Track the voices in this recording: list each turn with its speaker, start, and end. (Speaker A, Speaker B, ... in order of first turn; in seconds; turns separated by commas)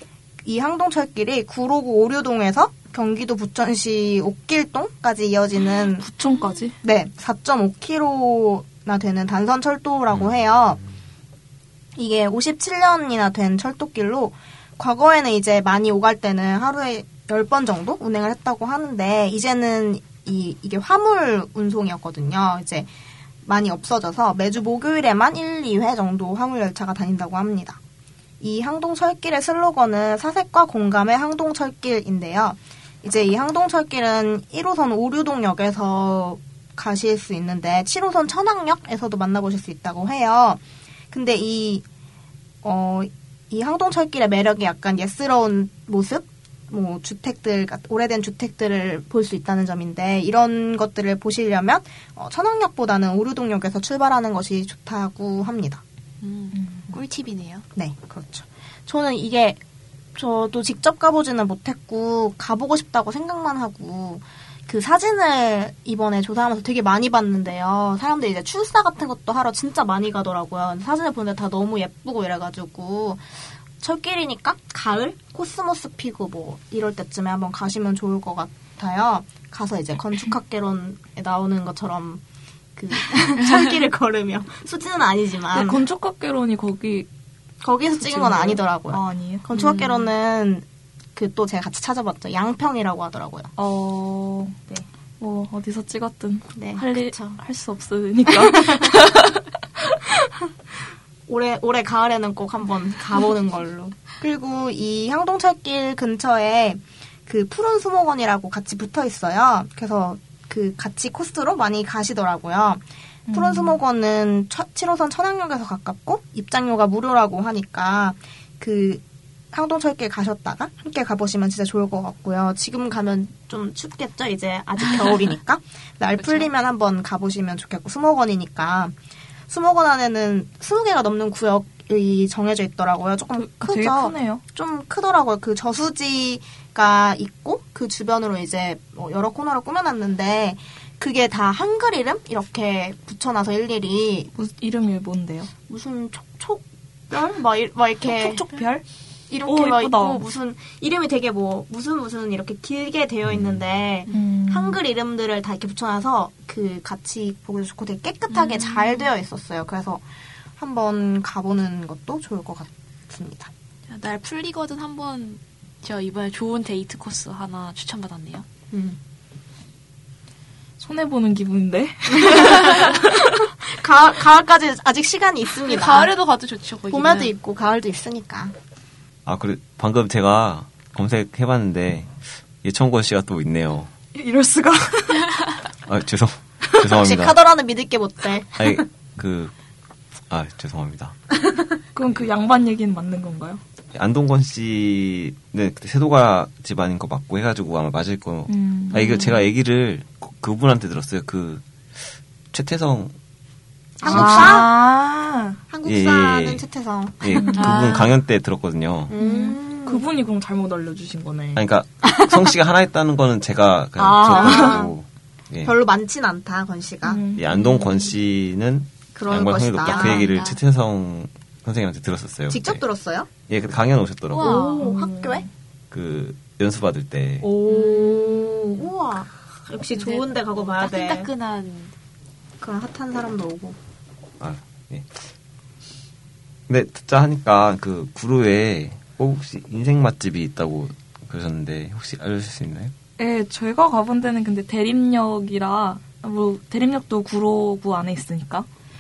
Speaker A: 0.4-6.1, Speaker B: 5.6-6.8, Speaker A: 6.8-10.8, Speaker A: 12.0-22.9, Speaker A: 23.4-27.8, Speaker A: 28.4-41.9, Speaker A: 42.6-55.8, Speaker C: 56.2-57.6, Speaker B: 56.5-56.9, Speaker A: 57.8-59.6, Speaker A: 60.1-73.3, Speaker A: 73.8-82.2, Speaker A: 82.8-85.8, Speaker B: 85.5-87.1, Speaker A: 87.6-90.6, Speaker B: 88.0-89.5, Speaker C: 89.5-90.1, Speaker A: 91.2-93.5, Speaker B: 93.5-94.7, Speaker B: 95.2-100.3, Speaker A: 96.5-97.4, Speaker A: 98.5-98.9, Speaker A: 101.3-128.9, Speaker B: 113.3-113.8, Speaker C: 126.2-126.5, Speaker A: 129.5-144.3, Speaker B: 133.4-134.4, Speaker B: 144.3-145.5, Speaker A: 145.7-148.5, Speaker B: 148.1-148.8, Speaker A: 149.3-160.0, Speaker B: 149.4-150.2, Speaker D: 153.3-153.6, Speaker B: 154.1-154.8, Speaker C: 158.3-159.1, Speaker A: 160.6-163.5, Speaker C: 163.9-168.4, Speaker A: 168.7-169.0, Speaker B: 170.8-173.3, Speaker A: 172.3-173.0, Speaker A: 173.6-176.1, Speaker C: 175.6-177.3, Speaker A: 176.9-178.5, Speaker D: 179.3-183.9, Speaker B: 184.1-185.3, Speaker D: 185.9-187.4, Speaker A: 186.9-188.8, Speaker D: 188.6-189.5, Speaker D: 190.3-191.1, Speaker B: 191.9-193.6, Speaker D: 193.9-203.1, Speaker B: 198.5-199.2, Speaker C: 199.0-199.4, Speaker A: 204.0-204.7, Speaker D: 204.0-204.6, Speaker B: 204.0-205.6, Speaker A: 205.7-207.8, Speaker D: 205.8-206.6, Speaker D: 207.2-209.1, Speaker B: 207.3-207.6, Speaker C: 207.5-208.2, Speaker A: 209.1-210.1, Speaker B: 209.2-211.6, Speaker D: 211.6-215.7, Speaker A: 212.2-212.5, Speaker A: 214.0-214.9, Speaker B: 214.2-214.8, Speaker A: 215.6-217.6, Speaker B: 217.1-217.8, Speaker D: 217.3-222.8, Speaker A: 219.1-220.3, Speaker C: 219.8-220.6, Speaker A: 222.5-223.3, Speaker D: 223.5-224.7, Speaker C: 224.3-224.9, Speaker A: 224.4-225.4, Speaker B: 224.4-225.5, Speaker D: 225.9-227.5, Speaker A: 227.6-231.3, Speaker C: 227.7-228.9, Speaker C: 229.9-231.9, Speaker A: 232.6-233.8, Speaker D: 234.4-235.3, Speaker D: 236.7-242.9, Speaker B: 243.2-248.7